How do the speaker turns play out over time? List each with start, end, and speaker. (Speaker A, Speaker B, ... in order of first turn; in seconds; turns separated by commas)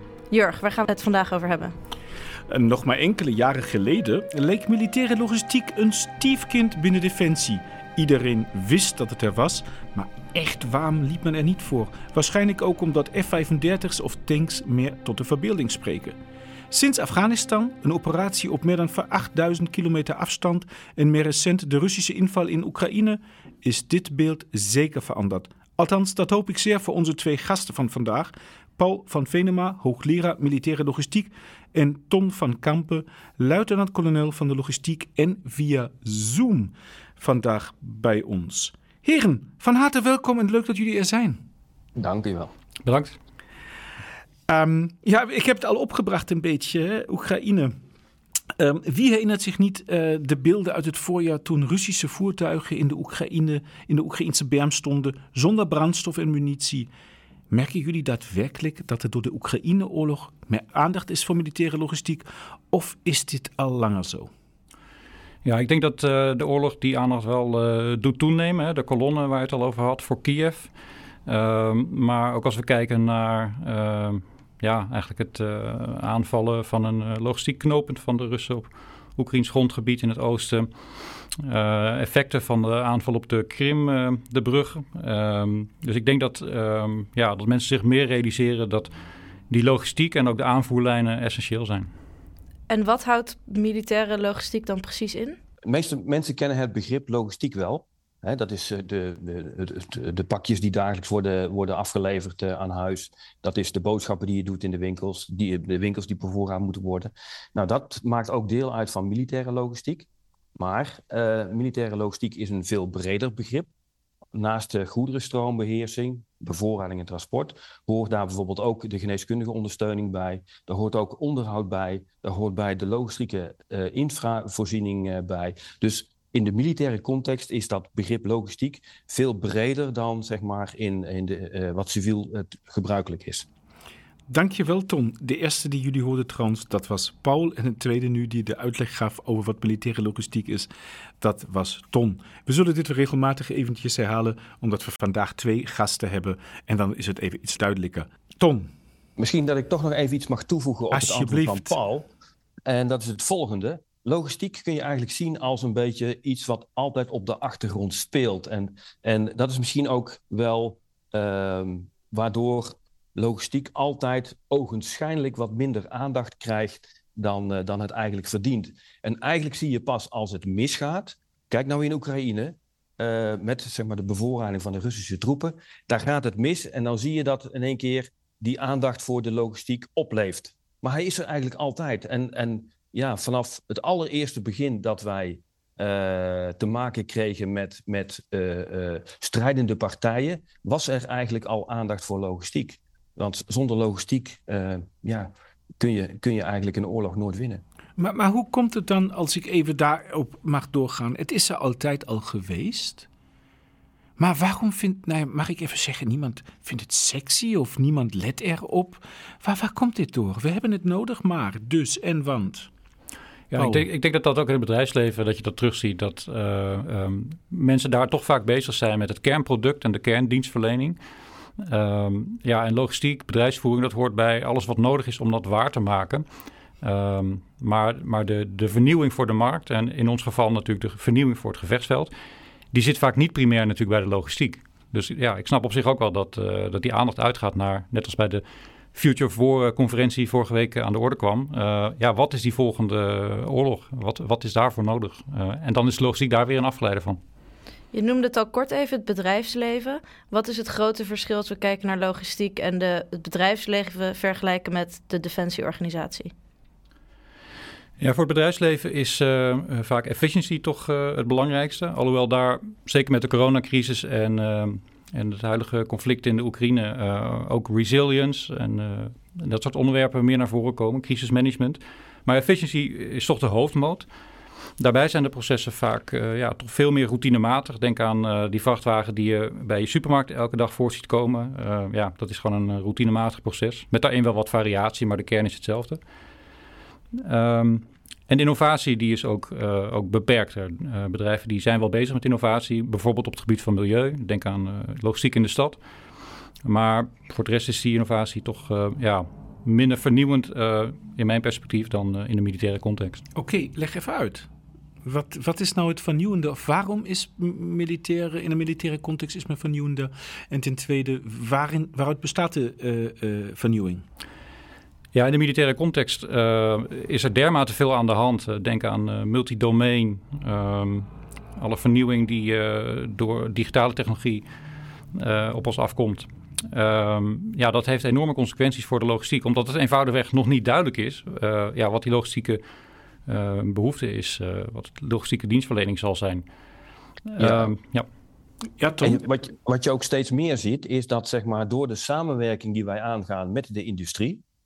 Speaker A: 0.3-1.8, Speaker B: 2.5-16.2, Speaker B: 16.7-41.4, Speaker C: 42.0-42.5, Speaker D: 42.8-43.2, Speaker B: 44.5-47.8, Speaker B: 48.6-56.9, Speaker B: 57.5-64.3, Speaker D: 65.4-70.7, Speaker D: 71.3-80.7, Speaker D: 81.4-88.9, Speaker D: 89.5-91.9, Speaker A: 92.7-95.4, Speaker C: 95.7-113.7, Speaker C: 114.3-133.5, Speaker B: 134.3-140.7, Speaker B: 141.2-148.7, Speaker C: 149.2-152.1, Speaker B: 150.9-151.8, Speaker C: 152.7-197.6, Speaker B: 198.0-203.1, Speaker B: 204.2-212.7, Speaker D: 213.5-221.0, Speaker B: 213.6-213.8, Speaker D: 221.6-226.2, Speaker D: 226.8-232.1, Speaker D: 232.7-238.4, Speaker D: 238.9-247.2, Speaker A: 247.9-256.3, Speaker D: 258.0-274.1, Speaker D: 274.8-286.0, Speaker D: 287.1-295.8, Speaker D: 296.6-303.3, Speaker B: 303.4-304.5, Speaker B: 305.0-314.0, Speaker D: 315.1-324.4, Speaker D: 325.1-332.6, Speaker D: 333.3-336.5, Speaker D: 337.3-338.1, Speaker C: 337.4-337.7, Speaker B: 338.8-339.2, Speaker C: 339.0-344.4